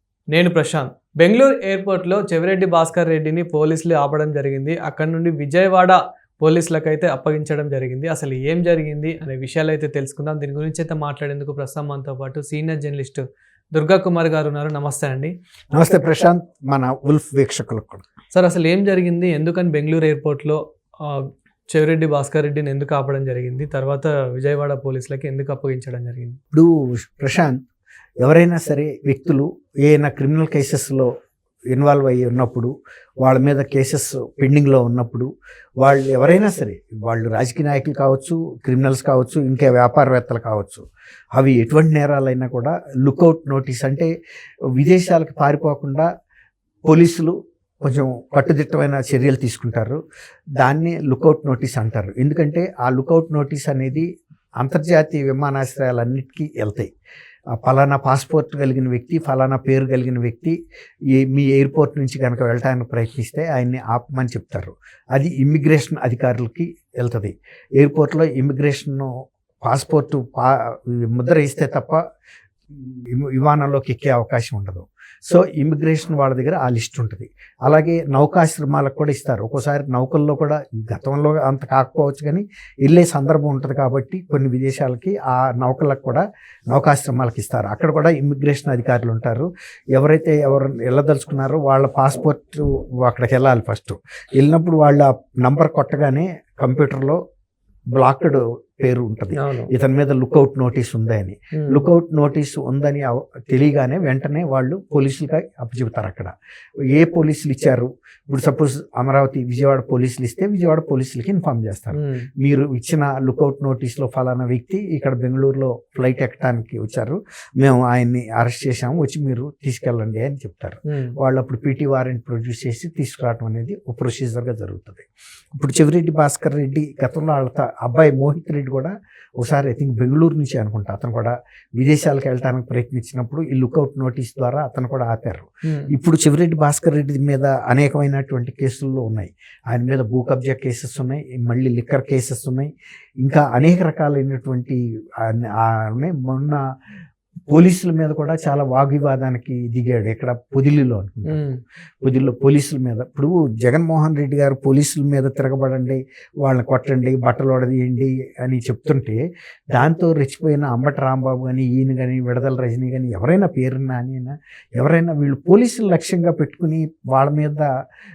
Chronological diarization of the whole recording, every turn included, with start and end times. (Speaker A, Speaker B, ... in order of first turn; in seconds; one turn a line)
Speaker A: 0.3-15.3
Speaker B: 15.7-18.1
Speaker A: 18.3-26.4
Speaker B: 26.5-27.6
Speaker B: 28.2-31.1
Speaker B: 31.7-32.7
Speaker B: 33.2-35.3
Speaker B: 35.8-44.1
Speaker B: 44.8-46.1
Speaker B: 46.9-50.0
Speaker B: 50.6-54.0
Speaker B: 54.6-56.9
Speaker B: 57.6-60.5
Speaker B: 61.1-72.0
Speaker B: 72.7-97.2
Speaker B: 98.0-106.3
Speaker A: 99.3-99.7
Speaker A: 101.5-101.8
Speaker B: 106.9-142.7
Speaker A: 111.9-112.3
Speaker A: 120.9-121.2
Speaker A: 135.6-135.9
Speaker B: 143.2-146.6
Speaker B: 147.5-151.4
Speaker A: 151.3-151.6
Speaker B: 152.0-159.2
Speaker B: 159.7-167.7